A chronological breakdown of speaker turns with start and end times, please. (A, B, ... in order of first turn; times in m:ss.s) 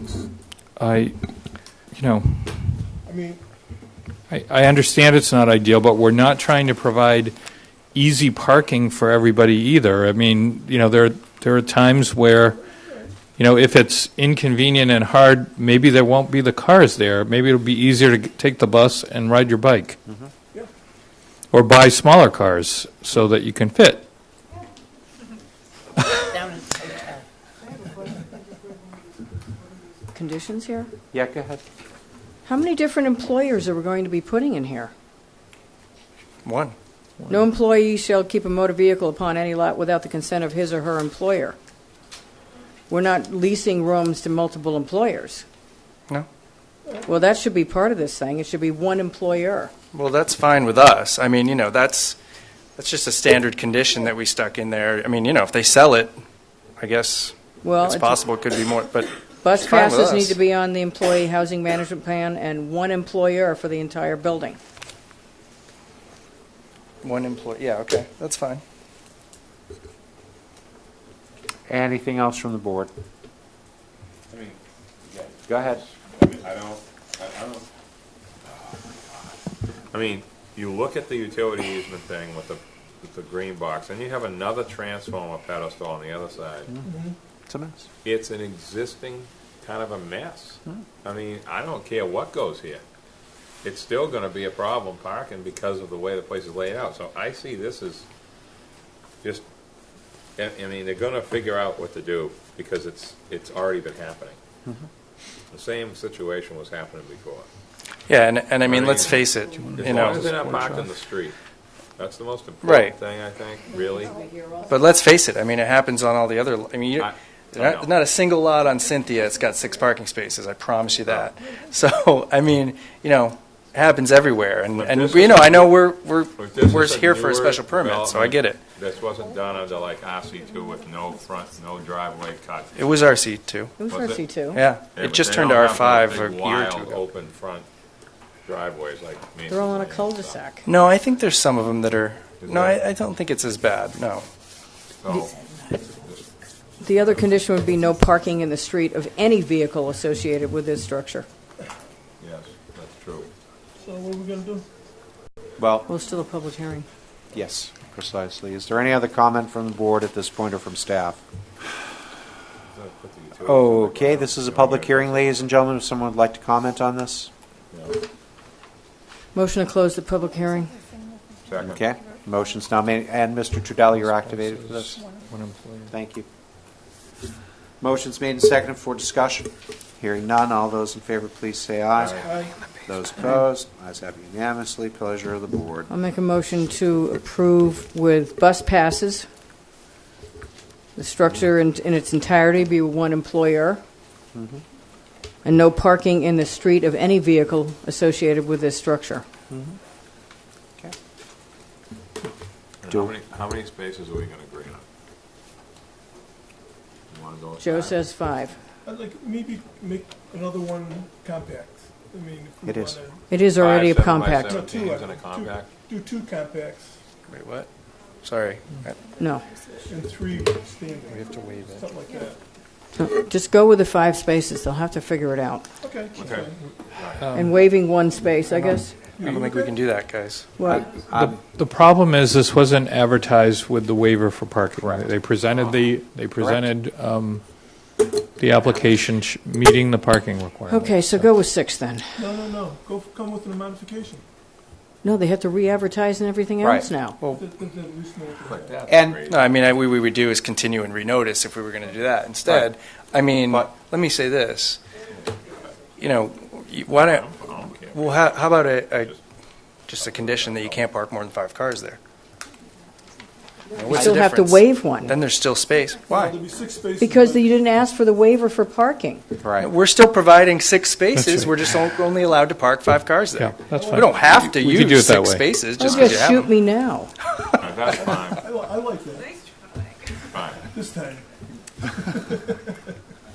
0:00.8-0:01.1 A
0:01.9-0:02.7 A
0:03.0-0:03.4 B
0:04.3-0:07.3 A
0:07.9-0:12.6 A
0:12.7-0:13.1 B
0:13.4-0:20.0 A
0:21.5-0:24.0 A
0:30.1-0:30.9 C
0:31.1-0:31.6 D
0:32.4-0:34.9 C
0:36.4-0:36.7 E
0:37.3-0:41.6 C
0:42.9-0:45.4 C
0:47.0-0:49.7 C
0:49.9-0:52.2 E
0:52.8-0:56.1 E
0:56.8-1:00.4 E
0:57.6-0:58.2 C
0:59.4-1:04.6 C
1:07.0-1:08.6 E
1:11.7-1:12.9 D
1:14.3-1:17.6 F
1:15.5-1:15.8 D
1:19.9-1:26.8 F
1:26.8-1:27.1 B
1:27.5-1:27.8 D
1:28.0-1:32.8 F
1:33.6-1:38.0 F
1:40.4-1:44.4 F
1:45.5-1:47.5 F
1:48.1-1:50.3 E
1:48.6-1:51.3 F
1:49.5-1:50.9 A
1:52.0-1:54.2 F
1:52.6-1:53.0 E
1:54.0-1:54.6 C
1:54.6-2:08.6 E
1:57.0-1:57.9 F
2:01.0-2:01.3 F
2:04.7-2:05.7 F
2:06.4-2:12.7 F
2:12.7-2:13.7 E
2:13.8-2:14.6 C
2:13.9-2:14.2 F
2:14.5-2:17.0 E
2:14.9-2:17.7 F
2:18.4-2:20.4 F
2:19.5-2:20.6 C
2:20.6-2:24.3 E
2:22.4-2:22.8 F
2:25.0-2:25.3 F
2:26.0-2:26.3 F
2:26.8-2:31.3 C
2:32.2-2:33.3 F
2:33.8-2:34.7 B
2:35.6-2:35.9 D
2:35.9-2:36.9 C
2:37.3-2:41.2 D
2:42.7-2:45.4 F
2:43.4-2:47.3 D
2:47.7-2:48.0 F
2:49.3-2:50.7 C
2:51.5-2:51.8 F
2:51.6-2:55.0 D
2:54.0-2:55.9 A
2:55.9-2:56.2 D
2:57.8-3:05.9 D
3:01.9-3:02.2 F
3:02.2-3:02.6 B
3:05.9-3:09.3 C
3:11.0-3:13.8 C
3:14.3-3:14.6 D
3:15.4-3:19.2 C
3:19.5-3:19.8 D
3:22.8-3:24.8 F
3:27.1-3:28.0 F
3:27.6-3:28.6 C
3:28.8-3:33.2 B
3:32.6-3:33.0 D
3:33.3-3:34.6 C
3:33.6-3:35.7 F
3:34.5-3:37.0 B
3:37.3-3:37.7 E
3:38.2-3:39.0 E
3:39.2-3:39.5 C
3:39.8-3:42.3 B
3:41.1-3:41.9 E
3:42.9-3:45.6 C
3:45.8-3:46.8 B
3:46.1-3:47.3 F
3:47.2-3:47.5 A
3:47.3-3:48.9 C
3:48.6-3:49.8 B
3:49.2-3:50.5 E
3:50.6-3:50.9 C
3:50.6-3:51.4 D
3:51.1-3:57.4 A
3:54.8-3:55.1 D
3:56.4-3:56.6 D
3:58.4-4:01.3 A
4:00.7-4:02.0 C
4:02.2-4:04.2 B
4:05.0-4:07.2 C
4:06.6-4:06.9 D
4:07.3-4:08.8 B
4:08.4-4:09.5 F
4:08.9-4:09.2 D
4:09.3-4:14.8 E
4:16.0-4:17.3 E
4:17.0-4:18.5 F
4:17.9-4:19.2 E
4:19.9-4:22.0 E
4:20.0-4:20.9 F
4:23.8-4:26.2 E
4:23.9-4:25.1 C
4:26.1-4:27.5 B
4:27.0-4:29.2 C
4:29.4-4:29.7 D
4:29.6-4:36.5 E
4:31.1-4:31.6 A
4:33.4-4:35.7 A
4:33.7-4:34.4 B
4:35.8-4:37.1 C
4:37.2-4:37.7 E
4:37.6-4:38.5 F
4:37.8-4:39.4 B
4:40.3-4:40.6 F
4:40.6-4:41.3 B
4:41.9-4:42.8 B